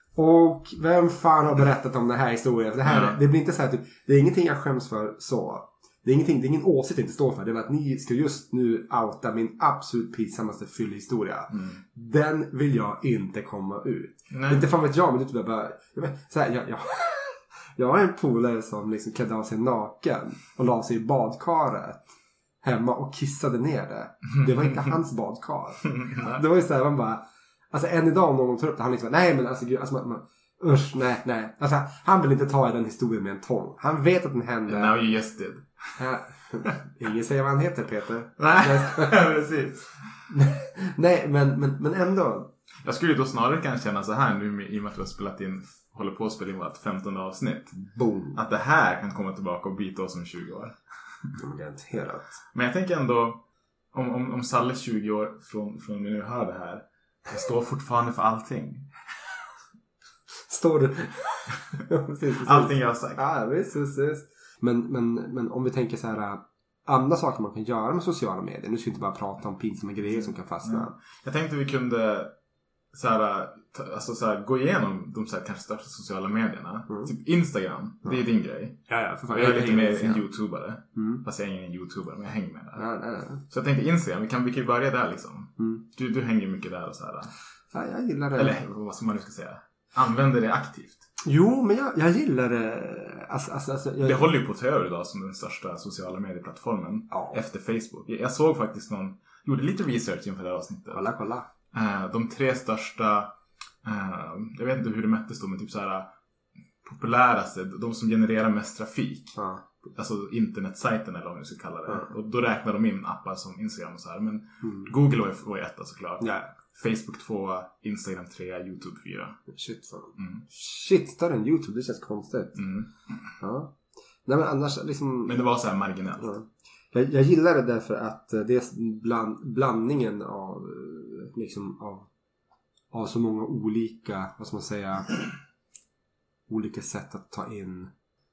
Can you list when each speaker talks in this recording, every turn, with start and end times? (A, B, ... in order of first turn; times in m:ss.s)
0:00.1-0:35.0 A
0:02.8-0:03.2 B
0:11.5-0:11.8 B
0:14.3-0:14.6 B
0:24.3-0:24.9 B
0:25.9-0:26.4 B
0:34.7-0:36.0 B
0:36.0-0:39.2 A
0:38.4-0:40.2 B
0:40.3-0:42.5 A
0:42.8-0:47.8 B
0:47.7-0:48.4 A
0:48.3-0:51.4 B
0:51.4-0:52.4 A
0:52.5-0:59.0 B
1:00.5-1:10.9 A
1:02.4-1:03.2 B
1:10.1-1:12.4 B
1:12.9-1:18.8 B
1:18.9-1:20.3 A
1:19.3-1:22.9 B
1:21.0-1:21.2 A
1:22.8-1:23.4 A
1:23.4-1:27.3 B
1:25.6-1:25.8 A
1:27.7-1:28.6 A
1:28.4-1:31.0 B
1:31.2-1:34.3 A
1:34.0-1:41.1 B
1:37.1-1:37.4 A
1:40.9-1:41.5 A
1:41.7-1:46.1 B
1:46.8-1:49.4 B
1:49.4-1:49.9 A
1:49.9-1:59.4 B
1:54.6-1:54.9 A
1:56.2-1:56.5 A
1:59.5-2:02.6 A
2:00.2-2:00.4 B
2:02.6-2:02.9 B
2:03.4-2:05.4 A
2:05.3-2:06.3 B
2:06.2-2:12.1 A
2:12.9-2:15.2 A
2:16.5-2:17.9 A